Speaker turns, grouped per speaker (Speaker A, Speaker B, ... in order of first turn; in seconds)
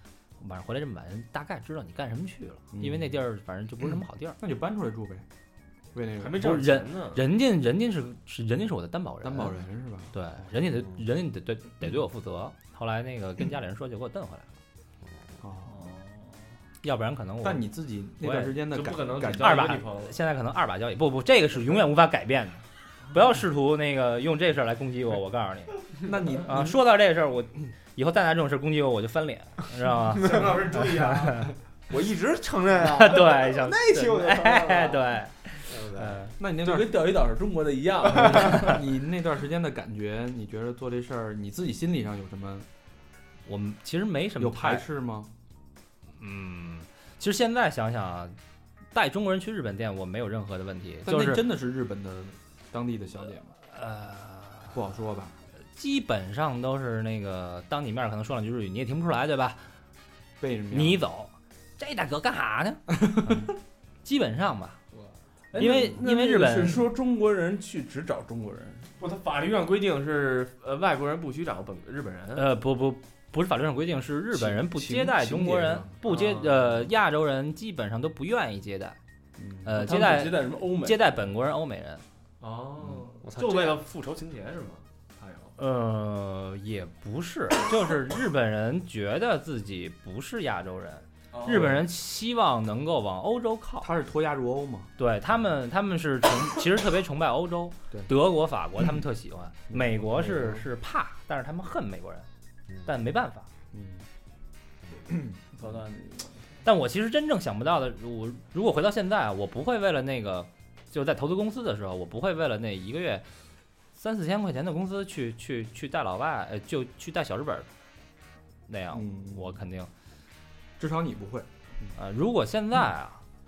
Speaker A: 0.4-4.4, 6.3-9.6, 10.1-14.5, 16.8-18.6, 19.4-25.8, 26.4-31.5, 32.8-36.4, 43.5-44.9, 46.2-48.4, 48.9-51.5, 53.7-54.8, 55.8-59.6, 60.7-63.5, 64.0-64.8, 65.6-66.8, 72.3-79.0, 79.6-82.0, 85.6-93.9, 95.0-102.3, 102.8-103.5, 106.7-113.2, 113.9-117.7, 118.7-119.9, 122.0-123.2
Speaker B: 2.7-3.2, 4.4-5.2, 5.9-6.4, 9.2-10.1, 15.4-15.8, 17.4-19.7, 26.0-26.8, 36.4-37.2, 38.0-42.7, 44.4-45.3, 51.1-53.5, 54.7-55.4, 60.4-61.0, 63.1-63.5, 74.3-75.9, 79.4-79.7, 91.5-91.8, 93.8-94.9, 99.7-100.6, 103.7-104.1, 118.9-119.5, 120.8-121.5
Speaker C: 6.2-7.2, 18.7-20.2, 30.2-31.4, 69.0-72.5, 76.1-76.7, 82.4-85.5, 91.3-91.8
Speaker D: 15.8-16.1, 36.6-38.8, 65.5-68.9, 79.7-81.0, 105.5-106.4
Speaker E: 31.9-35.1, 35.6-36.2, 83.2-83.8